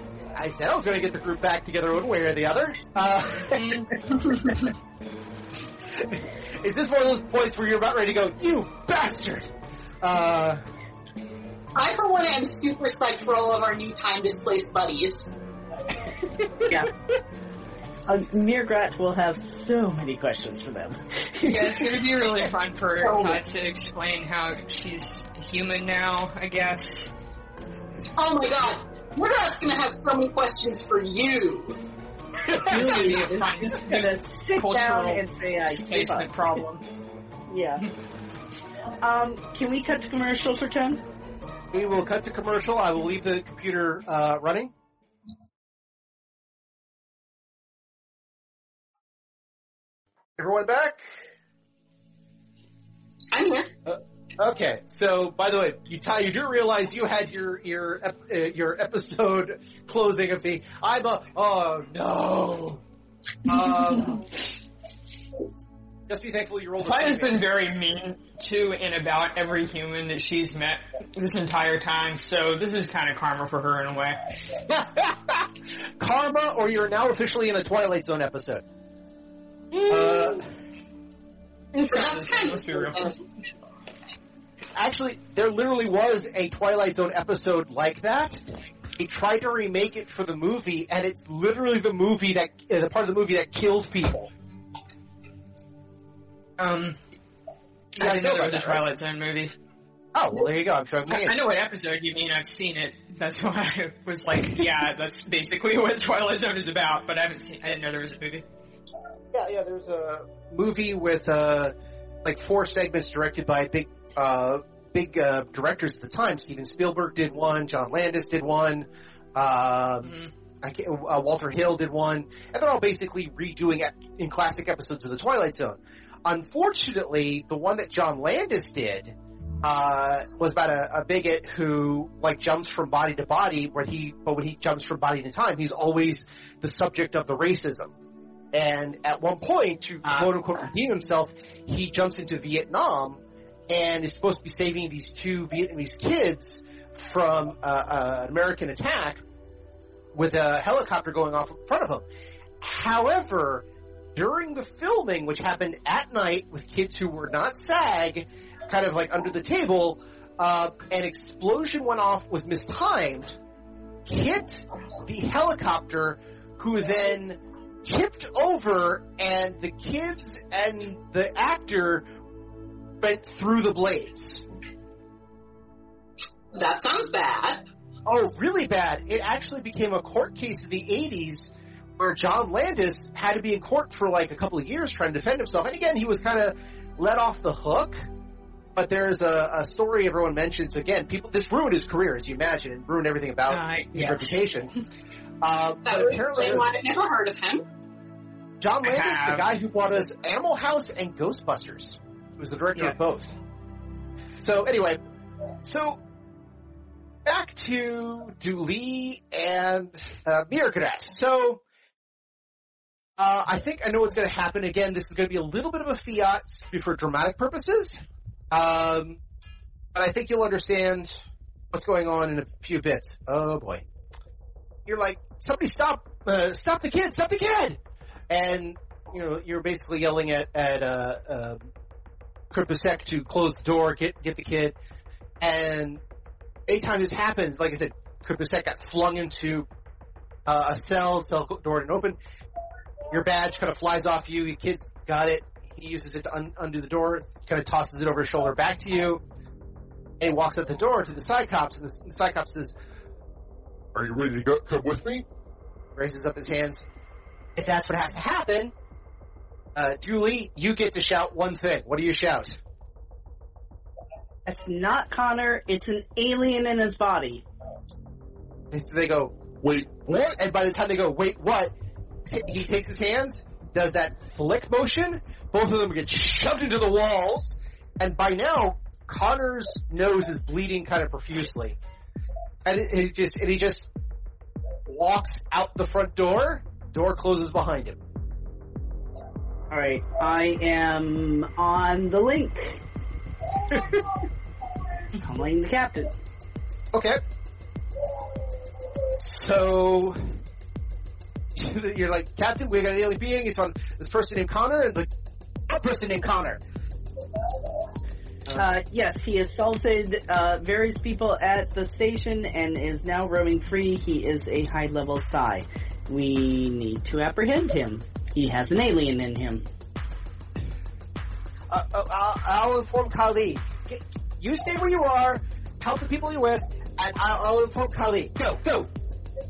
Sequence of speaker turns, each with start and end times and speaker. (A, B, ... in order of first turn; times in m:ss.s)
0:00.3-0:03.8 A
0:03.5-0:04.7 B
0:05.9-0:10.6 A
0:11.7-0:15.3 C
0:16.6-0:16.9 D
0:18.1-0:22.0 D
0:21.4-0:27.1 B
0:23.0-0:23.4 C
0:28.2-0:31.8 C
0:32.5-0:32.8 A
0:32.7-0:36.3 D
0:32.7-0:36.8 B
0:37.5-0:37.9 D
0:39.0-0:41.0 D
0:41.7-0:44.7 A
0:50.4-0:51.1 A
0:53.3-0:53.7 C
0:53.9-1:02.8 A
1:03.4-1:04.3 A
1:06.1-1:07.4 A
1:06.8-1:14.2 B
1:14.6-1:18.6 A
1:19.8-1:20.4 B
1:19.9-1:20.4 A
1:21.7-1:23.1 B
1:21.9-1:23.2 C
1:24.7-1:28.4 A
1:29.0-1:34.3 A
1:36.6-1:37.0 B
1:38.0-1:39.5 B
1:38.0-1:38.8 A
1:40.1-1:41.4 A
1:41.1-1:48.4 B
1:49.3-2:17.9 A
2:18.5-2:29.2 A
2:30.1-2:32.0 A
2:32.6-2:43.4 A
2:44.0-2:52.0 A
2:53.0-2:54.4 A
2:56.5-2:57.6 C
2:58.0-3:08.0 A
3:08.7-3:14.7 A
3:13.5-3:14.4 B
3:15.4-3:16.7 A
3:15.8-3:17.6 C
3:18.6-3:23.4 A
3:18.8-3:19.4 B
3:24.4-3:25.0 A
3:25.6-3:26.0 A
3:27.2-3:31.6 A
3:33.2-3:39.2 A
3:39.9-3:41.2 A
3:41.7-3:43.8 A
3:44.8-3:51.7 A
3:52.5-3:54.8 A
3:55.4-3:56.0 A
3:56.7-3:59.7 A
4:00.4-4:02.2 A
4:03.1-4:09.2 A
4:10.2-4:12.8 A
4:13.9-4:15.2 E
4:16.0-4:16.8 A
4:17.6-4:18.7 A
4:19.7-4:22.6 A
4:24.4-4:27.4 D
4:28.7-4:29.4 A
4:29.6-4:30.3 E
4:30.2-4:31.7 A
4:32.2-4:41.8 A
4:42.6-4:43.9 A
4:44.9-4:48.0 A
4:49.7-4:52.8 D
4:53.7-4:54.0 A
4:55.2-4:56.1 D
4:56.9-4:57.2 A
4:59.2-5:00.4 A
5:01.5-5:05.1 A
5:05.7-5:06.6 A
5:08.5-5:19.6 D
5:21.7-5:28.9 A